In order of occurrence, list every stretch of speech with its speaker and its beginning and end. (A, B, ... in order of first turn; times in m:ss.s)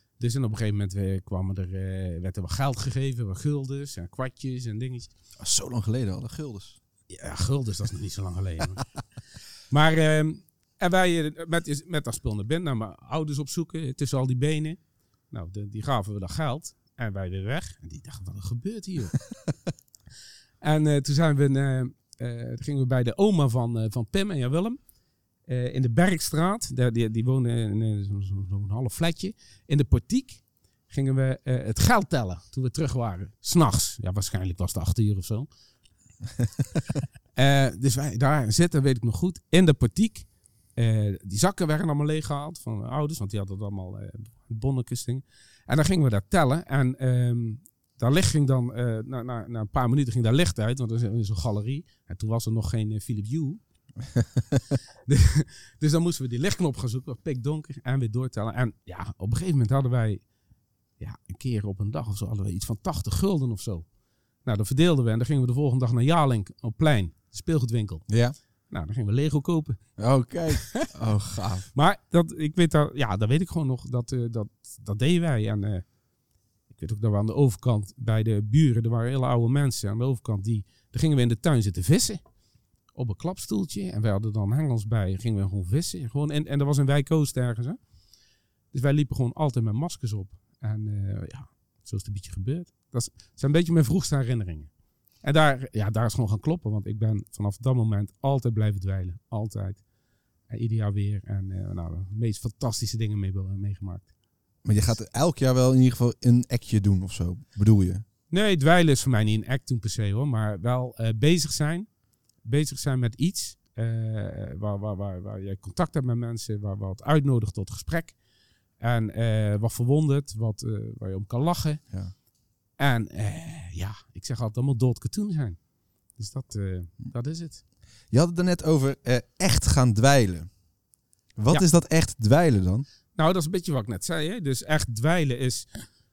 0:00.2-0:05.1 A
0:05.4-0:06.8 B
0:07.1-0:08.8 A
0:09.7-0:14.8 A
0:15.3-0:19.2 A
0:20.6-0:24.8 A
0:25.5-0:35.5 A
0:37.3-0:53.6 A
0:54.2-0:54.6 B
0:55.1-1:00.2 A
1:01.0-1:03.8 A
1:04.4-1:08.0 A
1:08.1-1:08.3 B
1:08.7-1:09.8 A
1:10.0-1:11.7 B
1:10.5-1:10.8 A
1:11.7-1:15.8 A
1:16.7-1:22.2 A
1:22.9-1:27.8 A
1:28.7-1:34.7 A
1:35.2-1:39.8 A
1:40.5-1:44.1 A
1:44.6-1:48.0 B
1:48.3-1:51.9 A
1:52.4-1:58.2 A
1:58.8-2:01.8 A
2:02.8-2:05.6 A
2:06.2-2:07.6 A
2:08.1-2:10.5 B
2:11.4-2:12.8 B
2:13.1-2:15.7 A